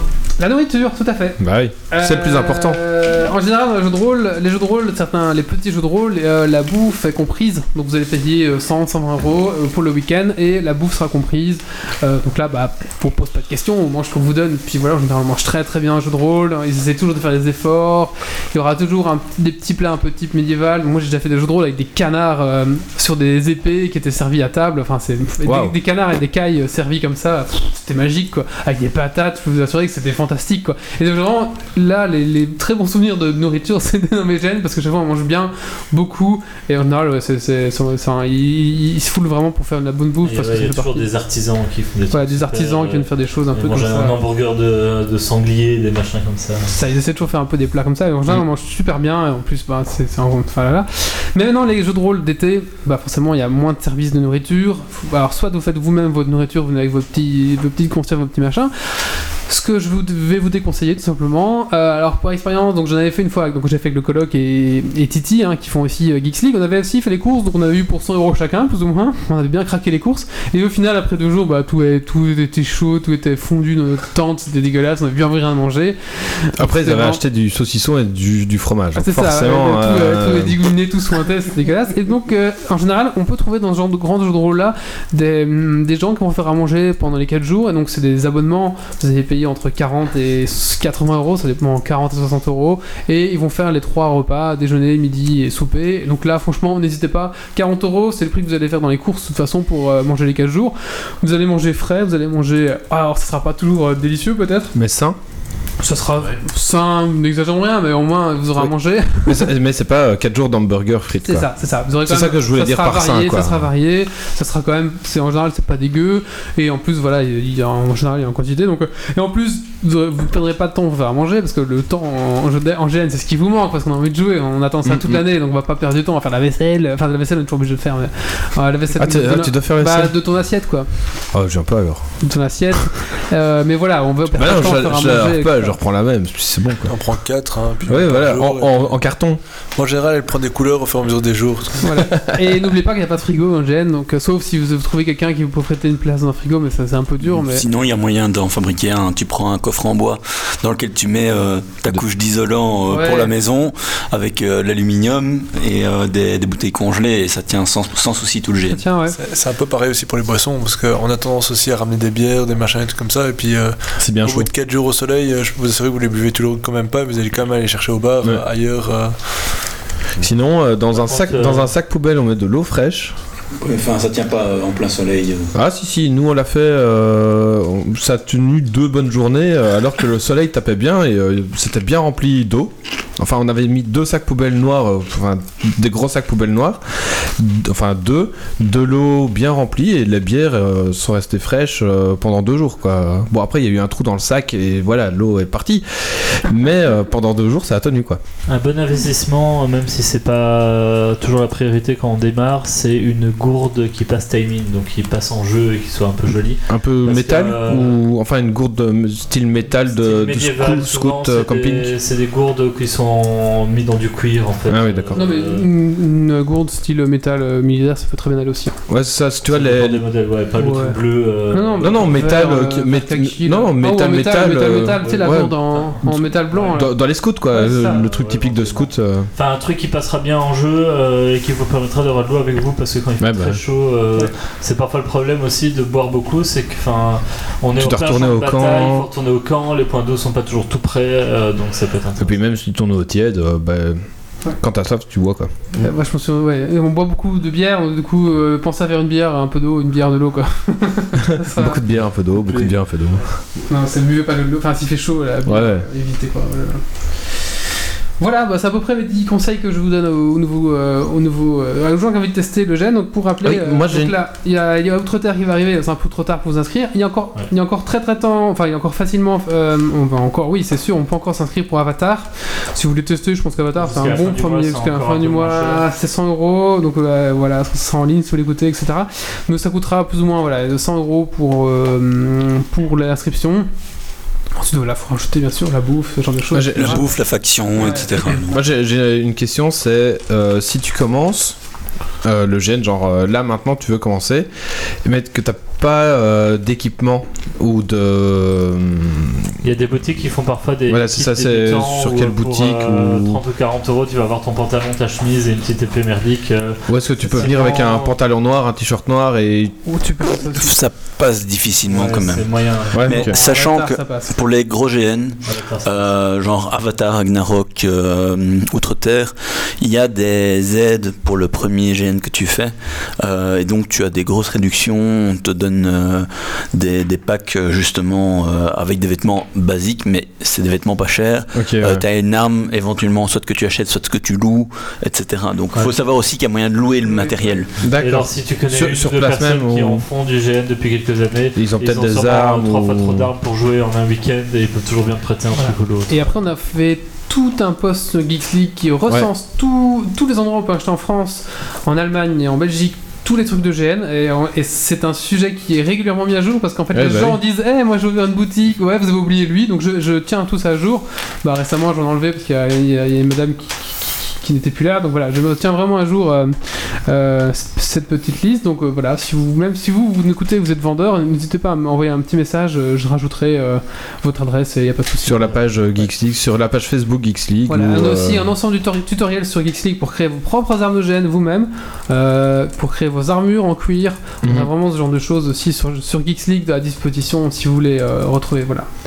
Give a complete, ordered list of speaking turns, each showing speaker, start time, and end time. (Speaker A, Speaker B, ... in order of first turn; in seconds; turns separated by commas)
Speaker A: 0.4-41.0, Speaker B: 1.4-2.8, Speaker B: 25.4-25.7, Speaker C: 40.2-46.7, Speaker A: 42.1-44.2, Speaker A: 46.7-77.2, Speaker B: 76.6-80.6, Speaker A: 78.9-104.7, Speaker B: 104.7-105.2, Speaker A: 105.8-109.4, Speaker B: 109.2-111.5, Speaker A: 111.2-130.9, Speaker B: 112.0-113.7, Speaker B: 124.8-125.2, Speaker B: 128.9-130.2, Speaker B: 131.3-132.1, Speaker A: 132.2-135.8, Speaker B: 134.3-136.9, Speaker D: 136.8-138.9, Speaker B: 137.9-139.4, Speaker D: 139.8-142.0, Speaker A: 141.8-147.6, Speaker E: 147.2-158.8, Speaker A: 152.9-153.3, Speaker A: 158.7-159.2, Speaker D: 159.1-169.2, Speaker B: 164.0-164.5, Speaker B: 170.2-173.2, Speaker C: 170.9-171.7, Speaker E: 173.6-175.5, Speaker B: 175.5-198.2, Speaker C: 198.5-207.9, Speaker B: 206.7-211.9, Speaker C: 209.9-215.7, Speaker B: 214.7-215.2, Speaker A: 215.1-218.7, Speaker B: 218.9-220.0, Speaker C: 219.5-222.4, Speaker A: 220.6-221.0, Speaker A: 221.5-226.9, Speaker B: 221.8-229.3, Speaker C: 224.8-226.8, Speaker A: 227.5-228.0, Speaker C: 227.8-242.4, Speaker B: 233.2-233.6, Speaker B: 237.8-239.1, Speaker B: 242.2-245.9, Speaker A: 245.7-251.8, Speaker B: 251.4-253.3, Speaker A: 253.7-256.8, Speaker B: 255.4-255.8, Speaker A: 258.2-283.7, Speaker B: 263.4-264.1, Speaker C: 273.8-275.9, Speaker A: 284.5-287.1, Speaker B: 286.5-287.0, Speaker E: 286.7-288.6, Speaker A: 287.8-288.1, Speaker B: 288.4-291.6, Speaker B: 292.2-294.5, Speaker B: 295.0-299.5, Speaker C: 299.6-308.1, Speaker B: 300.9-303.4, Speaker B: 306.9-309.8, Speaker A: 309.9-310.7, Speaker E: 310.2-337.7, Speaker C: 311.9-313.3, Speaker B: 312.9-313.3, Speaker A: 313.2-314.4, Speaker C: 315.4-316.1, Speaker B: 331.5-332.0, Speaker B: 337.8-340.0, Speaker C: 337.9-346.2, Speaker B: 341.6-343.3, Speaker A: 345.6-375.7, Speaker B: 356.9-357.4, Speaker B: 375.2-378.5, Speaker A: 377.7-388.9, Speaker B: 384.4-384.7